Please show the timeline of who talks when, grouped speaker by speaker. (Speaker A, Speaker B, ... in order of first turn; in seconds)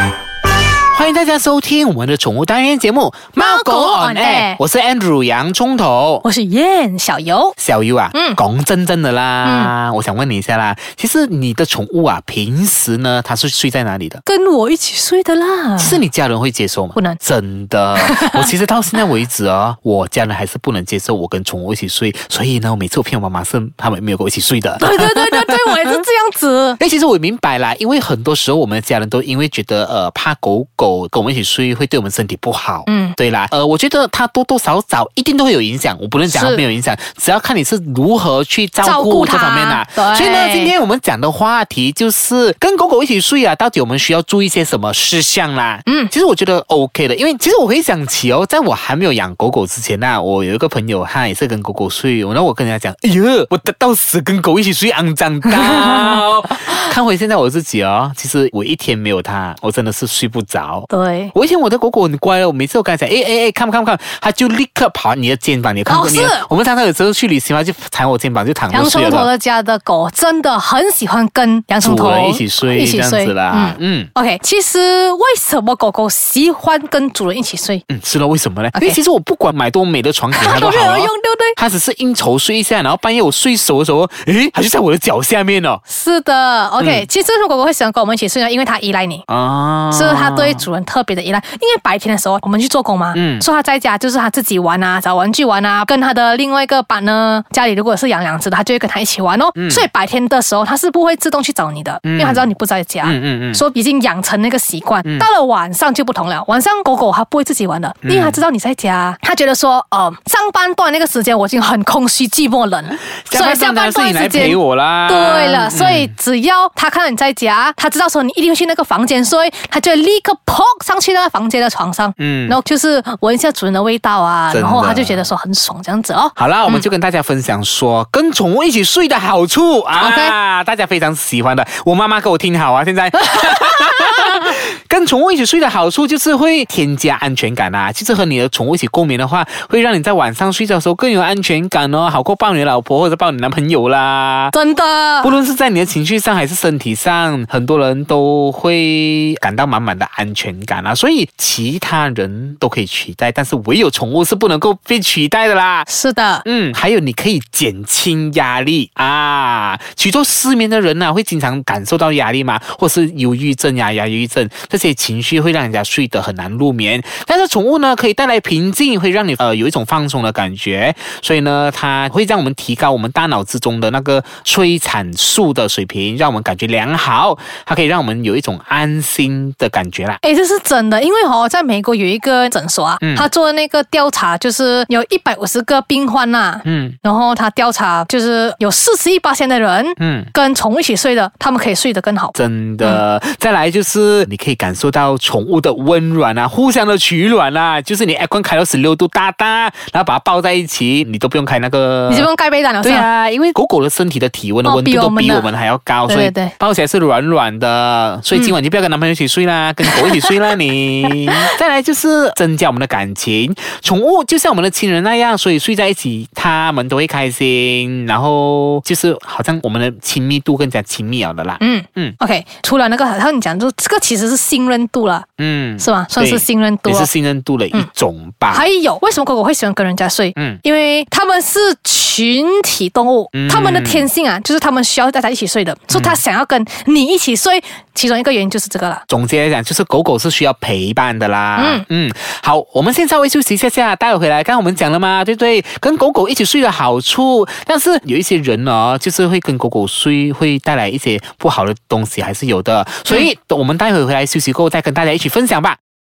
Speaker A: 0.9-6.2, 7.6-14.2, 15.8-26.0, 26.8-69.3, 71.8-74.1, 77.9-85.8, 86.8-87.0, 89.3-90.7, 93.1-93.4, 99.5-99.9, 102.0-102.5, 103.0-103.6, 108.0-108.4, 113.2-116.1, 122.2-122.6, 124.5-125.2, 126.3-144.5, 145.2-155.9, 156.4-180.2, 183.0-183.3, 186.6-187.0, 190.0-190.3, 192.3-202.3, 202.8-222.2, 225.4-228.6, 230.3-230.6, 233.3-234.1, 235.9-236.2, 239.1-255.8
Speaker B: 3.4-4.6, 6.2-7.6, 8.1-8.4, 9.4-9.7, 14.2-16.0, 18.0-18.5, 24.8-26.8, 32.9-33.2, 36.3-36.6, 38.8-40.7, 45.9-46.1, 60.9-61.3, 65.9-66.5, 68.7-77.8, 80.3-81.6, 85.9-89.2, 89.9-126.8, 129.9-130.3, 144.5-145.3, 155.9-156.4, 180.2-193.0, 202.1-203.1, 204.6-205.5, 206.1-206.5, 209.8-210.3, 211.1-211.5, 221.6-225.3, 225.8-227.1, 228.5-239.0, 241.6-241.8